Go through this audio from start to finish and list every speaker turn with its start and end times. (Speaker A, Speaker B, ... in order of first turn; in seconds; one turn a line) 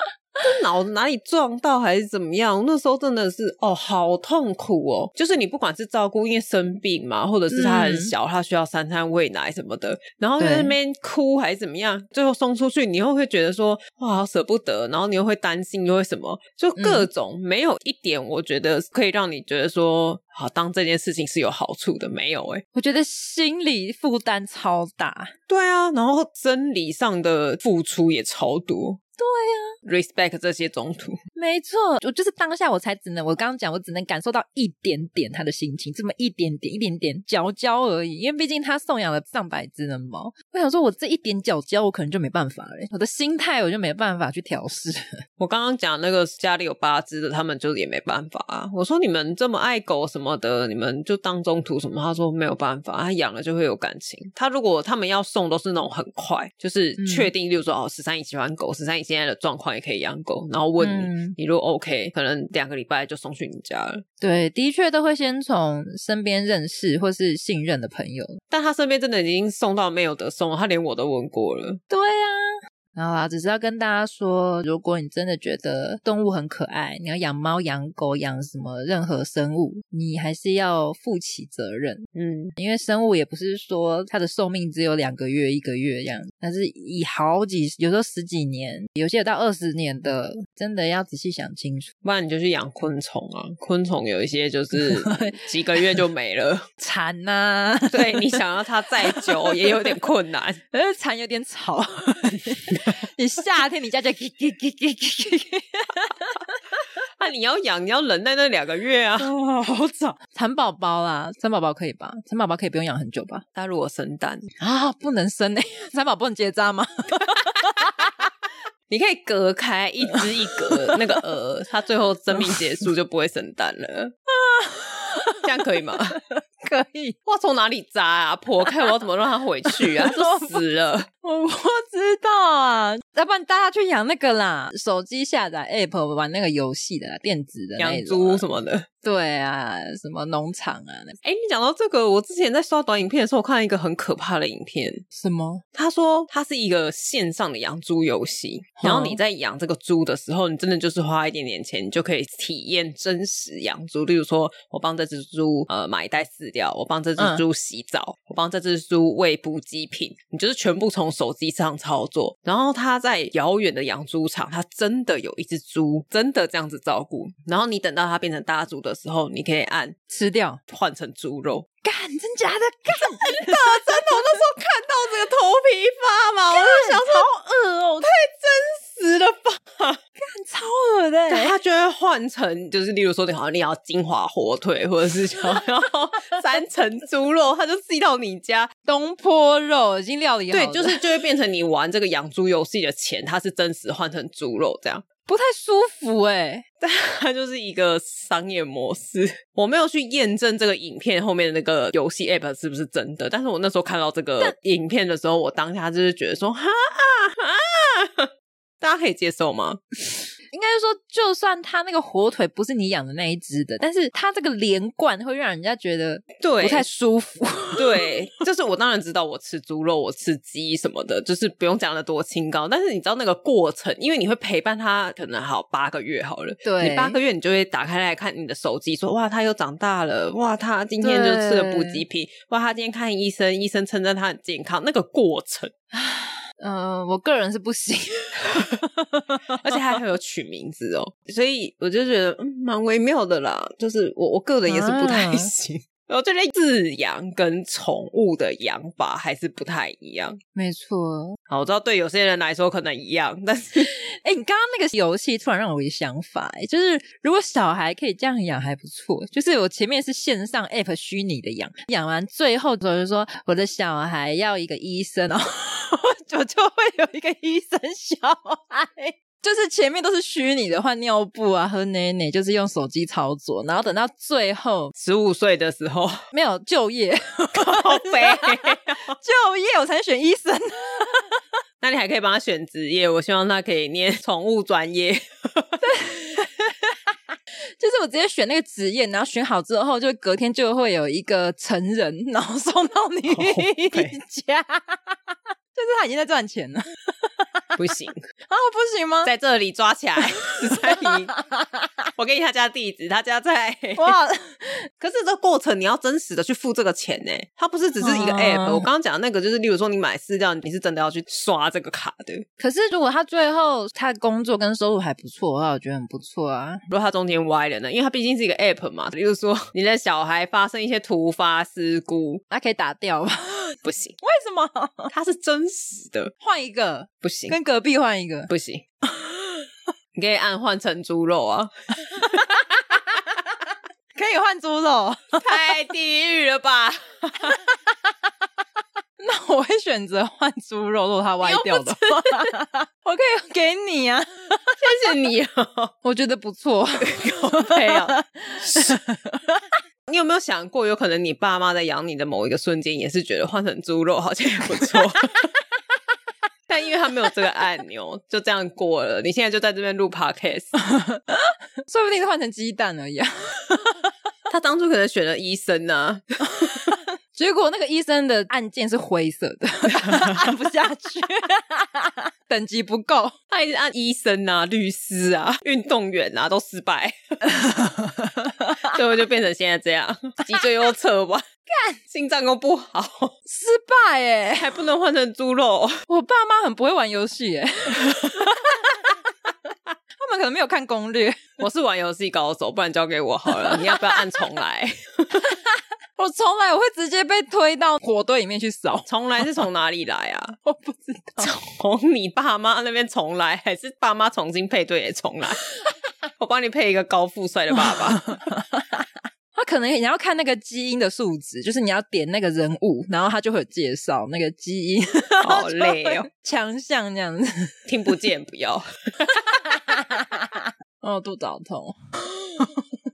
Speaker A: 0.4-22.6
Speaker B: 7.5-8.1
Speaker B: 10.4-10.8
Speaker B: 16.8-17.1
Speaker B: 22.7-25.3
Speaker A: 25.5-29.0
Speaker B: 29.2-29.7
Speaker A: 29.8-31.2
Speaker B: 31.4-45.1
Speaker A: 45.4-64.0
Speaker B: 57.0-57.3
Speaker B: 60.8-61.4
Speaker B: 64.2-68.4
Speaker A: 68.5-71.8
Speaker B: 71.9-82.0
Speaker A: 82.1-82.5
Speaker B: 82.6-91.9
Speaker A: 92.0-96.7
Speaker B: 94.7-96.0
Speaker B: 96.8-98.4
Speaker A: 97.9-100.6
Speaker B: 99.0-99.9
Speaker B: 100.7-106.6
Speaker A: 107.2-109.3
Speaker B: 109.2-113.4
Speaker A: 113.5-114.5
Speaker B: 114.6-118.3
Speaker A: 118.9-124.1
Speaker B: 120.1-121.2
Speaker B: 122.3-122.6
Speaker B: 124.3-125.4
Speaker A: 125.4-126.2
Speaker B: 126.1-127.2
Speaker A: 127.2-131.1
Speaker B: 129.7-130.6
Speaker B: 131.2-138.4
Speaker A: 137.8-138.9
Speaker B: 139.0-141.2
Speaker A: 141.2-145.0
Speaker B: 145.1-145.6
Speaker A: 145.7-169.9
Speaker B: 148.8-149.2
Speaker B: 157.2-157.4
Speaker B: 170.1-170.6
Speaker A: 170.7-171.7
Speaker B: 171.8-174.2
Speaker A: 173.0-177.3
Speaker B: 176.5-178.1
Speaker A: 178.0-180.0
Speaker B: 180.2-181.5
Speaker A: 181.3-188.7
Speaker B: 188.8-191.0
Speaker A: 190.5-195.0
Speaker B: 195.2-196.6
Speaker A: 196.8-208.3
Speaker A: 208.8-210.2
Speaker B: 210.5-218.1
Speaker A: 216.4-216.8
Speaker A: 217.8-235.7
Speaker B: 226.6-227.2
Speaker B: 231.0-232.0
Speaker B: 235.9-239.7
Speaker A: 239.6-250.4
Speaker B: 244.7-245.5
Speaker B: 250.5-251.4
Speaker A: 251.5-253.9
Speaker B: 254.2-274.9
Speaker A: 275.0-276.2
Speaker B: 276.3-281.4
Speaker A: 277.6-279.1
Speaker A: 281.8-285.8
Speaker B: 285.8-287.1
Speaker B: 287.6-297.6
Speaker A: 293.3-294.2
Speaker A: 297.8-298.2
Speaker B: 298.5-299.3
Speaker A: 299.2-301.3
Speaker B: 300.2-301.9
Speaker A: 302.1-304.1
Speaker B: 304.0-304.9
Speaker A: 305.0-312.4
Speaker B: 308.0-308.9
Speaker B: 312.6-316.8
Speaker A: 316.9-322.4
Speaker B: 322.5-325.1
Speaker A: 323.8-324.2
Speaker A: 325.1-326.3
Speaker B: 326.4-328.5
Speaker A: 327.2-327.6
Speaker A: 328.5-328.8
Speaker B: 329.1-329.7
Speaker A: 330.1-331.7
Speaker B: 332.1-333.2
Speaker B: 334.1-335.4
Speaker A: 335.4-337.6
Speaker B: 339.2-344.8
Speaker A: 341.4-342.4
Speaker A: 344.8-345.9
Speaker B: 346.0-349.7
Speaker A: 347.0-348.9
Speaker A: 350.1-355.5
Speaker A: 356.7-360.7
Speaker B: 360.8-364.1
Speaker A: 364.5-366.8
Speaker B: 366.5-373.3
Speaker A: 370.0-370.4
Speaker A: 373.5-377.4
Speaker B: 377.4-378.9
Speaker A: 378.9-381.4
Speaker B: 381.7-382.0
Speaker A: 382.1-383.3
Speaker B: 383.5-384.8
Speaker A: 384.6-386.0
Speaker B: 386.1-389.2
Speaker B: 390.2-391.4
Speaker A: 391.6-395.4
Speaker B: 393.5-394.4
Speaker B: 395.4-399.1
Speaker A: 399.1-400.6
Speaker B: 400.6-401.5
Speaker A: 401.4-405.6
Speaker A: 406.4-408.3
Speaker B: 407.7-417.7
Speaker A: 415.4-416.3
Speaker A: 417.9-418.9
Speaker B: 419.2-421.9
Speaker B: 422.6-422.8